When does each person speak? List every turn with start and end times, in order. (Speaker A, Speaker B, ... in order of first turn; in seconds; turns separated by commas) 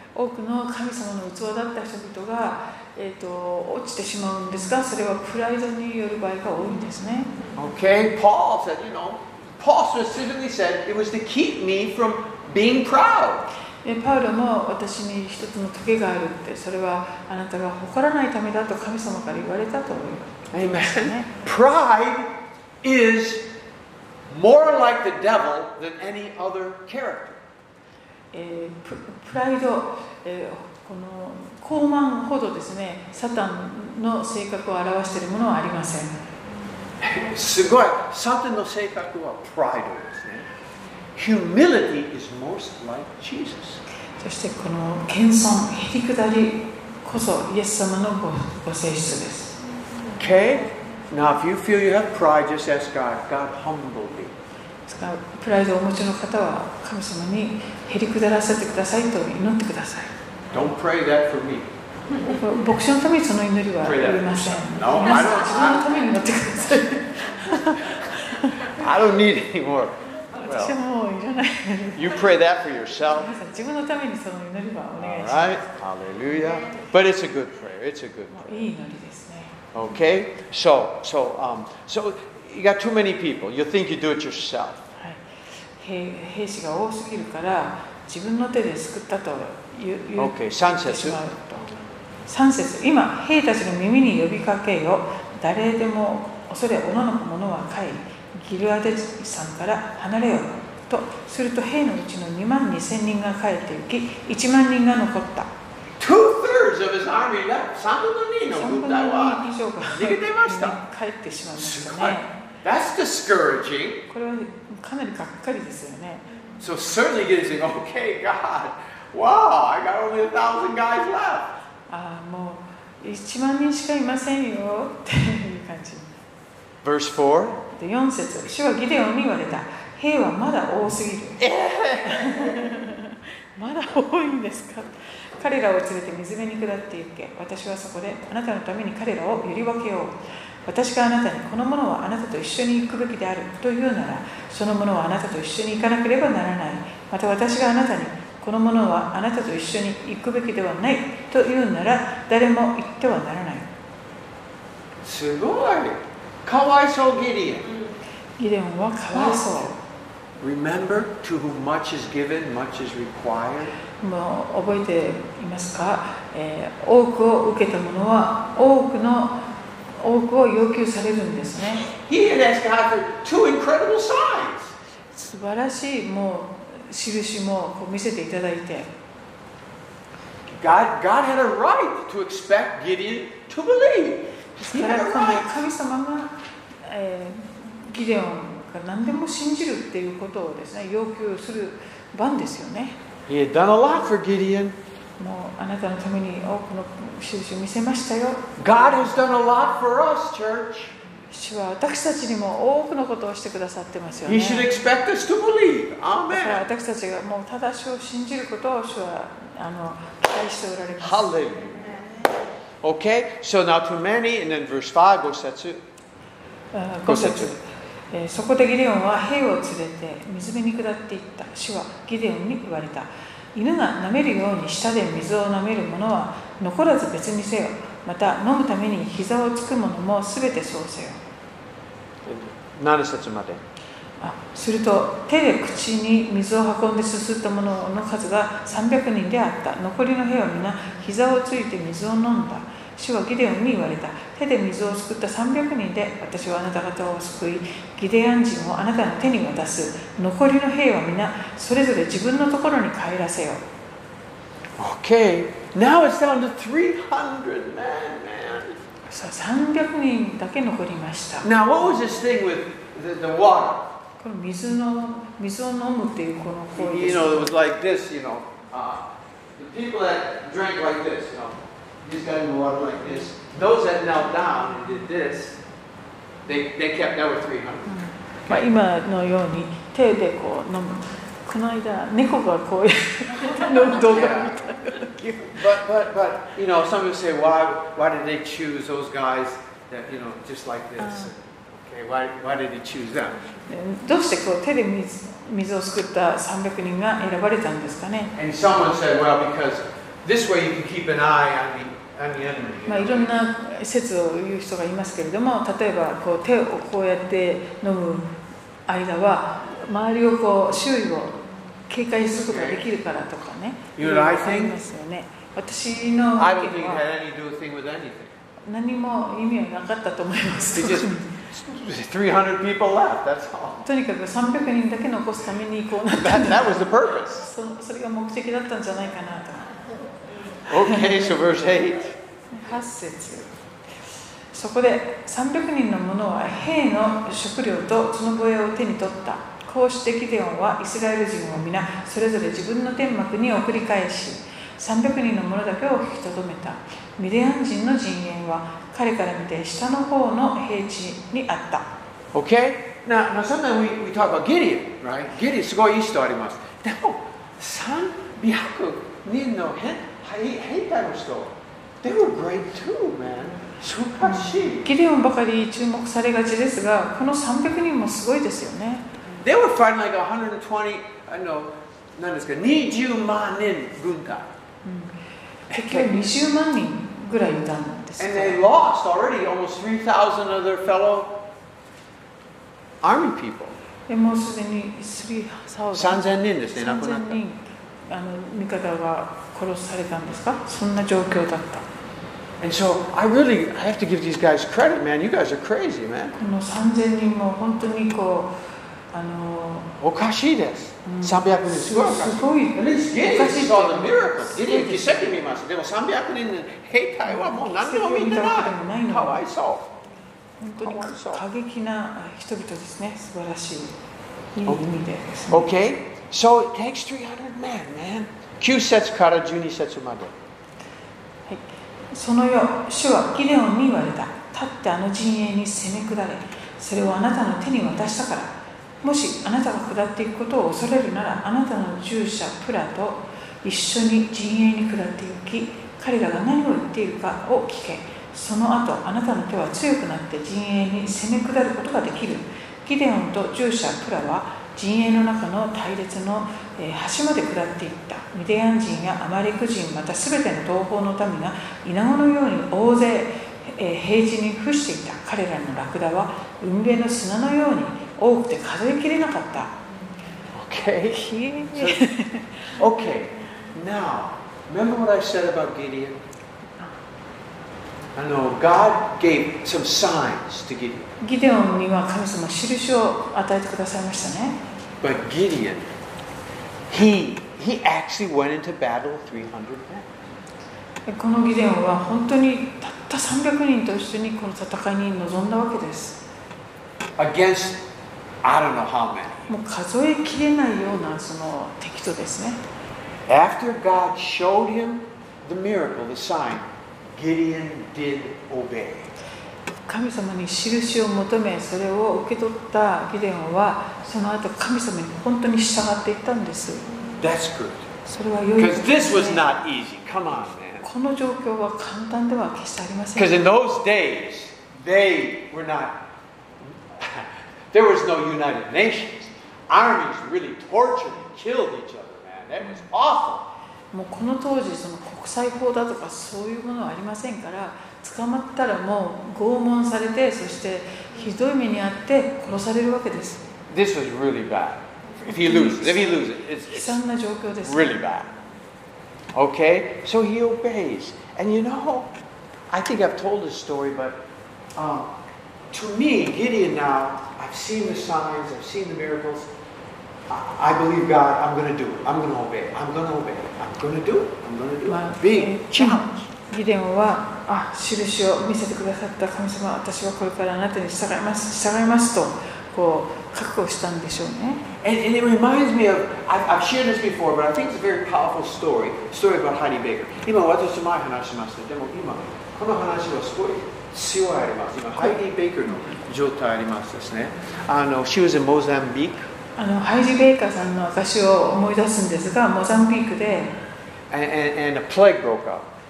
Speaker A: 0.1-7.3, Speaker B: 7.5-13.4, Speaker A: 13.8-21.3, Speaker B: 20.5-22.3, Speaker B: 22.8-23.4, Speaker B: 24.3-27.4, Speaker A: 28.3-36.1, Speaker B: 37.0-40.5, Speaker B: 41.1-43.8, Speaker A: 44.2-49.6, Speaker B: 50.2-54.3, Speaker A: 54.9-60.1, Speaker B: 60.5-61.7, Speaker A: 62.2-68.7, Speaker B: 63.8-65.9, Speaker B: 68.6-70.7, Speaker A: 70.4-72.3, Speaker B: 71.9-73.3, Speaker A: 73.1-75.6, Speaker B: 75.0-78.6, Speaker A: 78.3-79.6, Speaker B: 79.7-84.8, Speaker A: 85.0-85.2, Speaker A: 85.8-91.7, Speaker B: 90.2-91.2, Speaker A: 92.3-105.5, Speaker B: 106.0-110.8, Speaker A: 108.5-112.3, Speaker B: 111.5-114.0, Speaker A: 114.1-116.3, Speaker B: 116.6-121.5, Speaker A: 121.9-126.1, Speaker B: 126.8-127.6, Speaker A: 127.7-131.4, Speaker B: 131.4-132.6, Speaker A: 132.0-153.7, Speaker B: 155.0-157.7, Speaker A: 158.4-159.8, Speaker B: 159.1-159.4, Speaker B: 160.4-163.7, Speaker A: 164.0-171.8, Speaker B: 171.9-174.7, Speaker A: 175.1-178.9, Speaker B: 180.5-185.5, Speaker A: 184.6-193.0, Speaker B: 193.3-194.8, Speaker A: 195.2-198.6, Speaker B: 198.6-200.9, Speaker A: 201.3-204.7, Speaker B: 204.2-206.6, Speaker A: 206.3-211.3, Speaker B: 211.0-212.0, Speaker B: 212.8-215.8, Speaker A: 216.7-231.2, Speaker B: 217.1-217.5, Speaker B: 232.2-233.6, Speaker A: 234.2-253.6, Speaker B: 254.8-258.8, Speaker A: 259.1-261.5, Speaker B: 261.4-263.9, Speaker A: 264.2-267.5, Speaker B: 266.7-275.6, Speaker B: 276.5-278.6, Speaker A: 277.9-285.1, Speaker B: 283.9-293.4, Speaker A: 293.7-298.3, Speaker B: 298.3-303.3, Speaker A: 302.9-308.3, Speaker A: 308.9-317.0, Speaker B: 312.5-312.8, Speaker B: 313.9-314.8, Speaker B: 316.4-318.3, Speaker A: 318.6-321.4, Speaker B: 320.7-323.8, Speaker A: 323.8-329.9, Speaker B: 326.1-327.5, Speaker B: 330.6-332.1, Speaker A: 330.7-331.3, Speaker A: 332.5-333.5, Speaker A: 334.5-351.9, Speaker B: 352.3-364.9, Speaker A: 364.2-369.1, Speaker B: 369.4-374.5, Speaker A: 374.8-375.1, Speaker B: 375.7-376.3, Speaker A: 375.7-378.6, Speaker B: 378.2-381.4, Speaker B: 383.0-383.8, Speaker A: 384.1-391.9, Speaker B: 385.9-387.4, Speaker B: 392.6-396.4, Speaker A: 396.4-398.5, Speaker A: 399.1-399.9, Speaker B: 400.0-409.9, Speaker A: 401.0-405.4, Speaker A: 407.3-409.4, Speaker A: 410.6-413.9, Speaker B: 410.8-411.4, Speaker A: 414.5-415.7, Speaker B: 415.5-420.3, Speaker A: 421.5-459.8, Speaker B: 460.5-462.1, Speaker A: 461.1-462.6, Speaker B: 462.7-466.2, Speaker B: 468.1-471.1, Speaker A: 471.2-474.6, Speaker B: 475.0-475.9, Speaker B: 476.9-480.1, Speaker A: 481.1-486.2, Speaker B: 487.2-487.8, Speaker B: 488.4-489.5, Speaker A: 489.5-492.6, Speaker B: 493.3-499.1, Speaker A: 499.9-506.8, Speaker B: 507.2-507.9, Speaker A: 508.1-509.4, Speaker B: 508.6-510.9, Speaker A: 510.8-513.4, Speaker B: 513.1-516.0, Speaker B: 517.0-523.5, Speaker A: 523.9-533.5, Speaker B: 533.7-537.0, Speaker A: 535.2-538.0, Speaker B: 537.6-538.3, Speaker B: 539.3-542.1, Speaker B: 542.7-544.2, Speaker B: 544.8-545.1, Speaker B: 545.7-549.5, Speaker B: 550.3-556.3, Speaker A: 554.9-564.6, Speaker B: 564.8-579.2, Speaker A: 579.5-583.5, Speaker B: 584.1-585.7